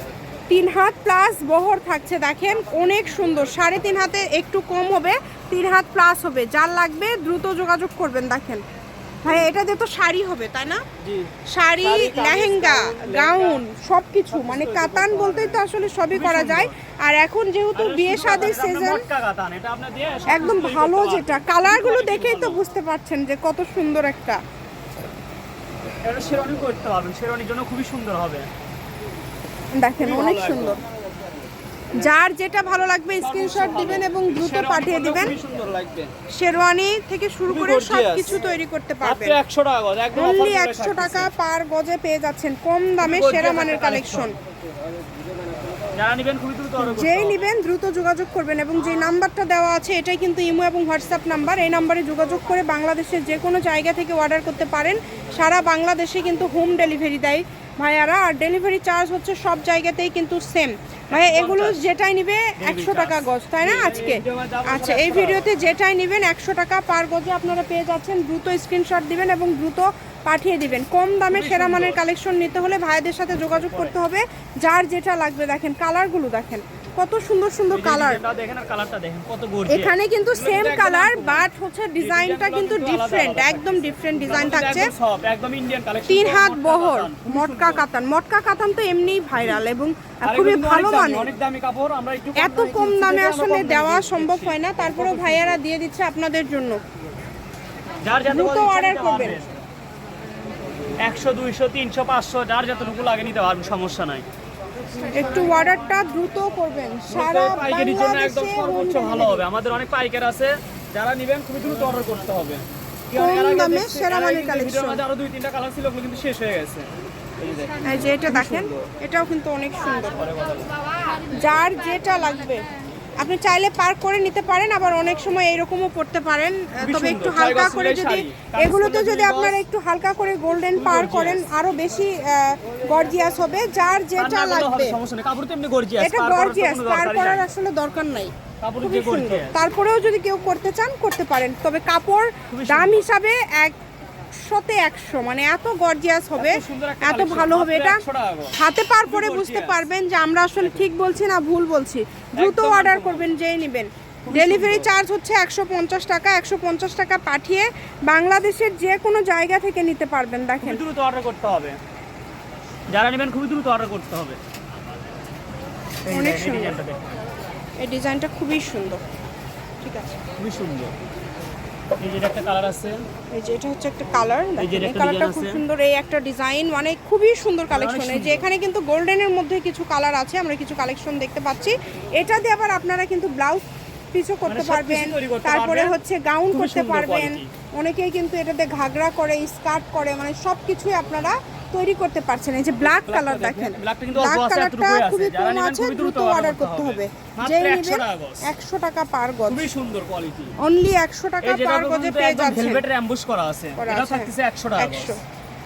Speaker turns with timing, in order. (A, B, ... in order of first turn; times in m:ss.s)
0:00.5-0:08.6 A
0:09.2-0:10.8 A
0:11.0-0:13.6 B
0:11.5-0:19.0 A
0:14.3-0:16.8 B
0:17.8-0:22.6 B
0:20.3-0:24.4 A
0:26.0-0:28.5 B
0:29.8-0:30.8 A
0:30.0-0:30.8 B
0:32.0-0:35.3 A
0:33.2-0:36.1 B
0:36.3-0:39.4 A
0:37.5-0:38.4 B
0:39.0-0:41.3 B
0:40.2-0:44.3 A
0:43.0-0:44.3 B
0:46.0-0:47.4 B
0:46.8-1:18.2 A
1:01.1-1:01.8 B
1:02.6-1:05.5 B
1:11.3-1:12.0 B
1:13.6-1:14.0 B
1:17.7-1:21.5 B
1:19.7-1:24.9 A
1:22.0-1:27.8 B
1:26.1-1:31.3 A
1:29.4-1:29.6 B
1:30.2-1:35.6 B
1:32.4-1:36.8 A
1:38.0-1:39.5 B
1:38.3-1:39.4 A
1:41.0-1:44.3 B
1:45.1-1:49.4 A
1:47.1-1:56.9 B
1:53.1-1:55.0 A
1:57.4-1:58.8 B
1:57.8-2:00.3 A
2:00.2-2:00.7 B
2:01.4-2:02.7 A
2:03.2-2:15.0 A
2:06.8-2:09.6 B
2:10.8-2:11.4 B
2:14.2-2:17.5 B
2:16.0-2:23.8 A
2:18.6-2:19.6 B
2:22.5-2:23.1 B
2:24.4-2:28.0 A
2:26.4-2:29.9 B
2:28.6-2:40.8 A
2:30.6-2:30.8 B
2:32.4-2:33.3 B
2:34.2-2:34.9 B
2:40.6-2:41.8 B
2:42.9-2:44.4 B
2:46.0-2:47.1 B
2:46.1-2:46.8 A
2:47.8-2:49.0 A
2:49.8-2:50.2 A
2:50.4-2:50.9 B
2:52.0-2:53.0 B
2:53.3-3:19.6 A
2:54.6-2:55.6 B
2:57.7-2:58.5 B
3:04.5-3:06.0 B
3:06.5-3:07.5 B
3:12.8-3:18.5 B
3:19.5-3:20.6 B
3:20.6-3:22.8 A
3:21.4-3:25.2 B
3:23.8-3:25.2 A